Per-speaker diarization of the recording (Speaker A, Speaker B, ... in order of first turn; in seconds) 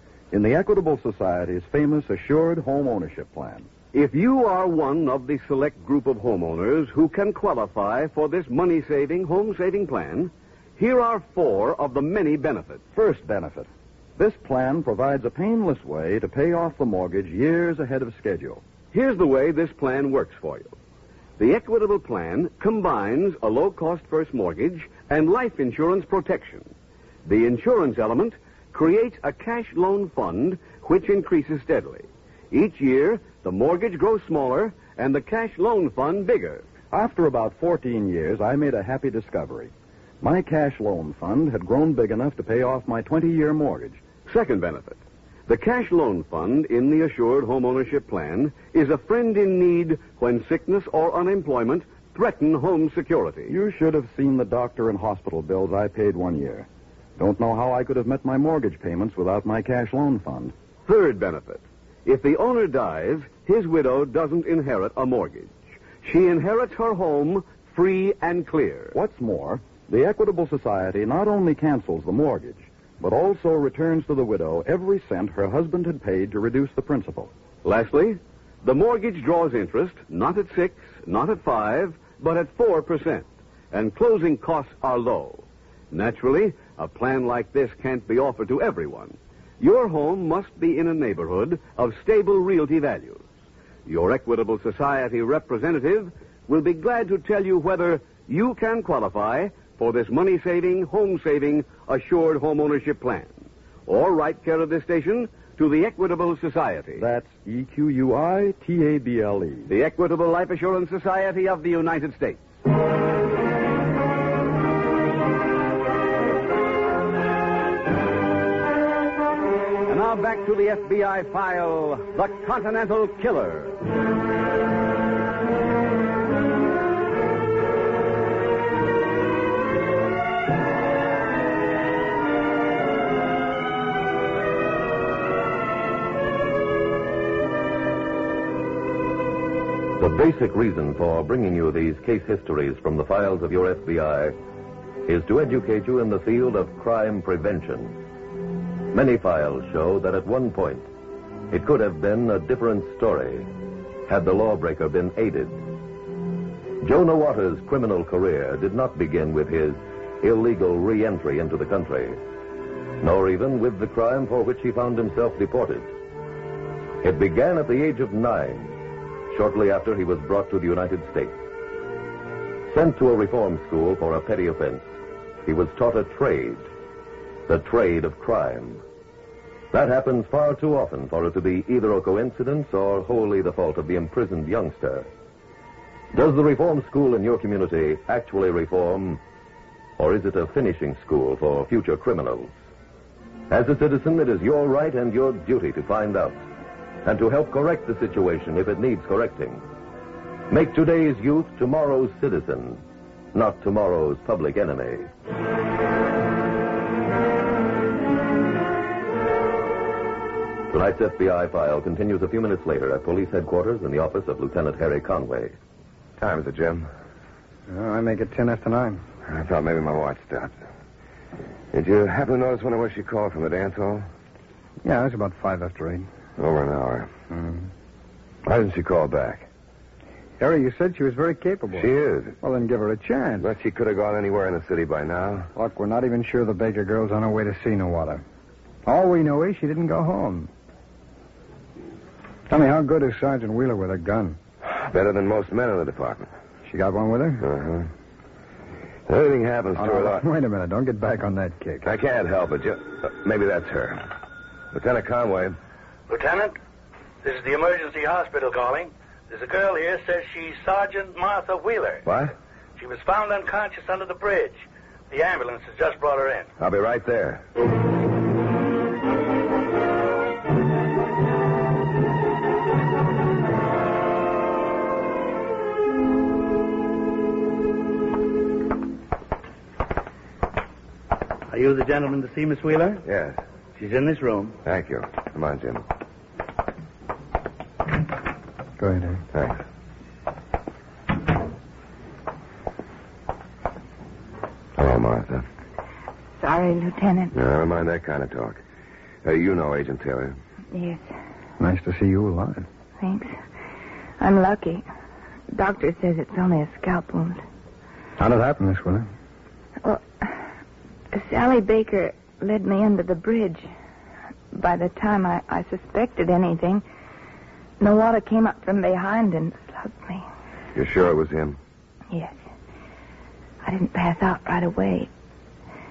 Speaker A: 0.3-3.7, 12.9-18.6, 36.9-44.0, 53.5-60.5, 68.9-77.3, 107.0-109.7
Speaker B: 3.9-12.8, 18.9-20.7, 21.4-26.7, 27.2-36.6, 44.2-53.5, 60.9-68.9, 77.6-93.2, 93.8-103.3, 103.9-107.0, 109.7-112.5, 119.9-123.8
Speaker C: 140.0-144.3, 145.1-148.0, 148.9-150.9, 151.5-153.5, 154.1-155.6, 156.8-162.2, 163.0-165.9, 167.0-168.8, 169.3-171.3, 172.7-174.9, 175.4-176.7, 177.5-178.8, 179.7-185.1, 186.1-189.2, 190.0-192.5, 193.5-196.4, 197.0-199.6, 200.5-202.8, 203.3-205.1, 210.7-215.5
Speaker D: 216.2-216.8, 219.2-220.5, 221.7-224.1, 226.4-227.1, 228.4-229.5, 231.7-232.3, 233.4-235.5, 244.7-246.3, 247.4-247.9, 249.1-250.2, 251.8-254.1, 254.7-255.6, 262.0-262.3, 266.6-267.4, 283.0-283.4, 284.6-285.8, 289.3-289.6, 294.8-295.4, 297.3-298.6, 299.2-300.4, 320.7-321.6
Speaker E: 217.7-219.0, 224.8-226.1, 227.3-227.7, 230.4-231.9, 232.4-233.5, 235.5-238.2, 238.8-240.5, 242.5-244.4, 246.6-247.4, 249.8-251.9, 288.8-289.2, 301.6-302.6, 308.2-309.1
Speaker F: 256.1-256.6, 257.2-262.0, 262.8-266.5, 281.5-283.0, 283.8-284.6
Speaker G: 296.4-297.3, 300.7-301.1, 303.0-303.4, 304.2-304.8, 305.5-307.4, 309.8-310.4, 311.1-313.7, 314.5-316.8, 317.8-320.2, 322.1-322.4, 323.6-325.1